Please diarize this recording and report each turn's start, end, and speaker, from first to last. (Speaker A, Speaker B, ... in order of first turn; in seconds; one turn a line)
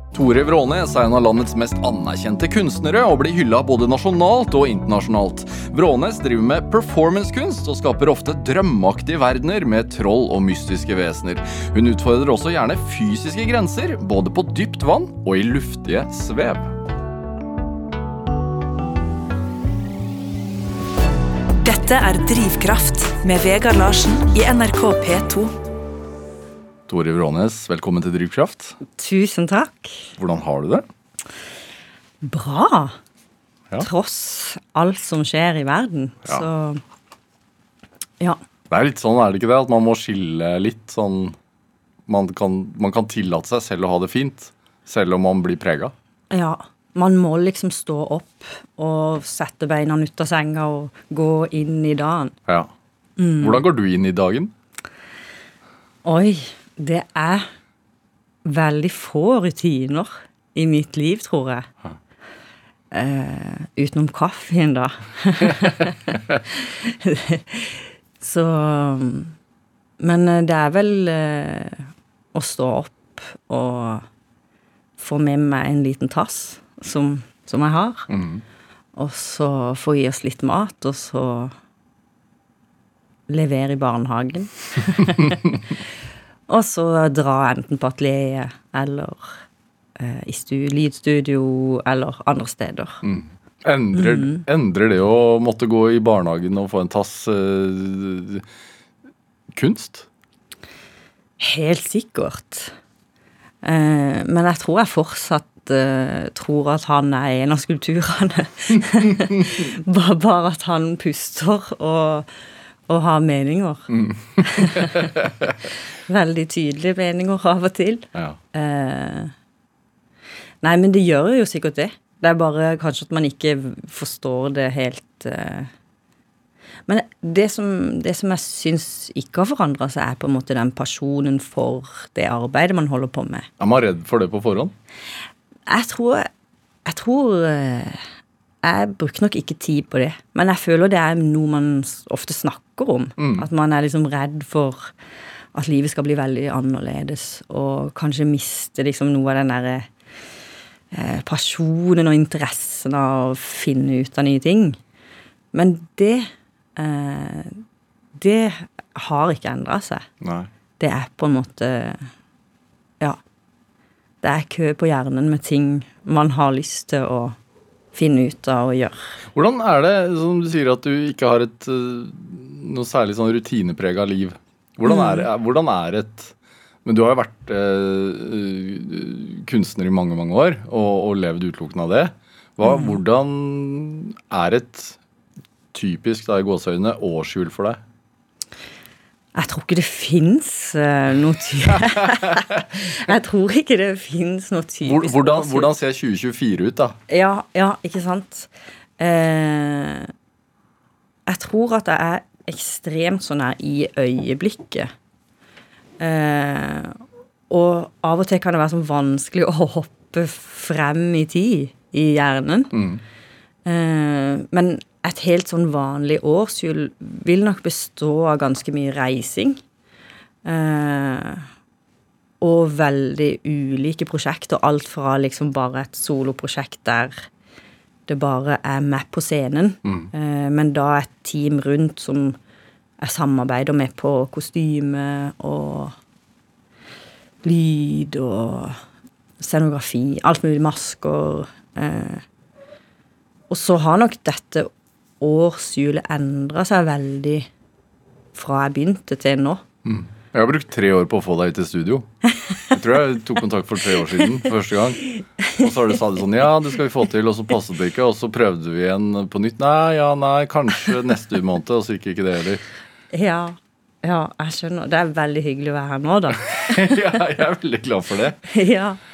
Speaker A: 0.1-16.7
Speaker B: 21.6-25.6
Speaker A: 26.9-28.8
Speaker C: 28.9-30.1
Speaker A: 30.2-30.9
Speaker C: 32.2-33.0
Speaker C: 33.8-36.8
Speaker A: 38.7-41.4
Speaker A: 42.1-45.9
Speaker C: 46.3-52.3
Speaker A: 52.5-52.7
Speaker C: 53.2-53.6
Speaker A: 53.4-54.5
Speaker C: 56.0-57.5
Speaker C: 58.4-61.7
Speaker C: 62.9-69.3
Speaker C: 70.0-74.0
Speaker C: 75.0-78.1
Speaker A: 78.1-78.4
Speaker C: 79.0-81.5
Speaker C: 83.3-85.5
Speaker C: 86.5-89.4
Speaker C: 90.0-93.0
Speaker A: 93.0-98.4
Speaker C: 93.9-94.4
Speaker A: 99.5-100.1
Speaker C: 101.4-102.7
Speaker C: 103.6-112.3
Speaker C: 112.9-115.3
Speaker A: 113.9-115.5
Speaker C: 116.1-119.3
Speaker C: 120.6-125.7
Speaker C: 126.9-133.5
Speaker A: 133.6-134.7
Speaker C: 135.7-136.3
Speaker C: 136.8-138.0
Speaker C: 138.6-144.9
Speaker A: 143.2-143.5
Speaker C: 145.5-149.9
Speaker C: 150.9-154.8
Speaker C: 155.5-157.6
Speaker C: 158.1-160.1
Speaker A: 160.2-160.5
Speaker C: 160.8-162.1
Speaker C: 164.2-167.3
Speaker C: 167.9-169.0
Speaker A: 169.3-176.3
Speaker C: 174.9-175.2
Speaker A: 176.8-185.0
Speaker C: 182.6-182.9
Speaker A: 185.7-187.8
Speaker C: 189.3-195.7
Speaker A: 191.9-192.3
Speaker A: 194.8-197.0
Speaker C: 197.1-200.1
Speaker C: 201.3-204.9
Speaker C: 206.0-207.0
Speaker C: 207.5-212.7
Speaker A: 212.7-213.0
Speaker C: 213.6-219.6
Speaker C: 220.4-221.4
Speaker C: 222.4-227.3
Speaker C: 228.1-232.4
Speaker A: 229.8-230.1
Speaker C: 233.0-235.9
Speaker C: 237.4-238.8
Speaker C: 239.4-242.2
Speaker C: 243.5-244.7
Speaker C: 245.2-247.5
Speaker C: 248.3-249.6
Speaker A: 249.8-252.1
Speaker A: 252.7-262.6
Speaker C: 263.1-266.9
Speaker A: 266.6-268.4
Speaker C: 268.5-269.0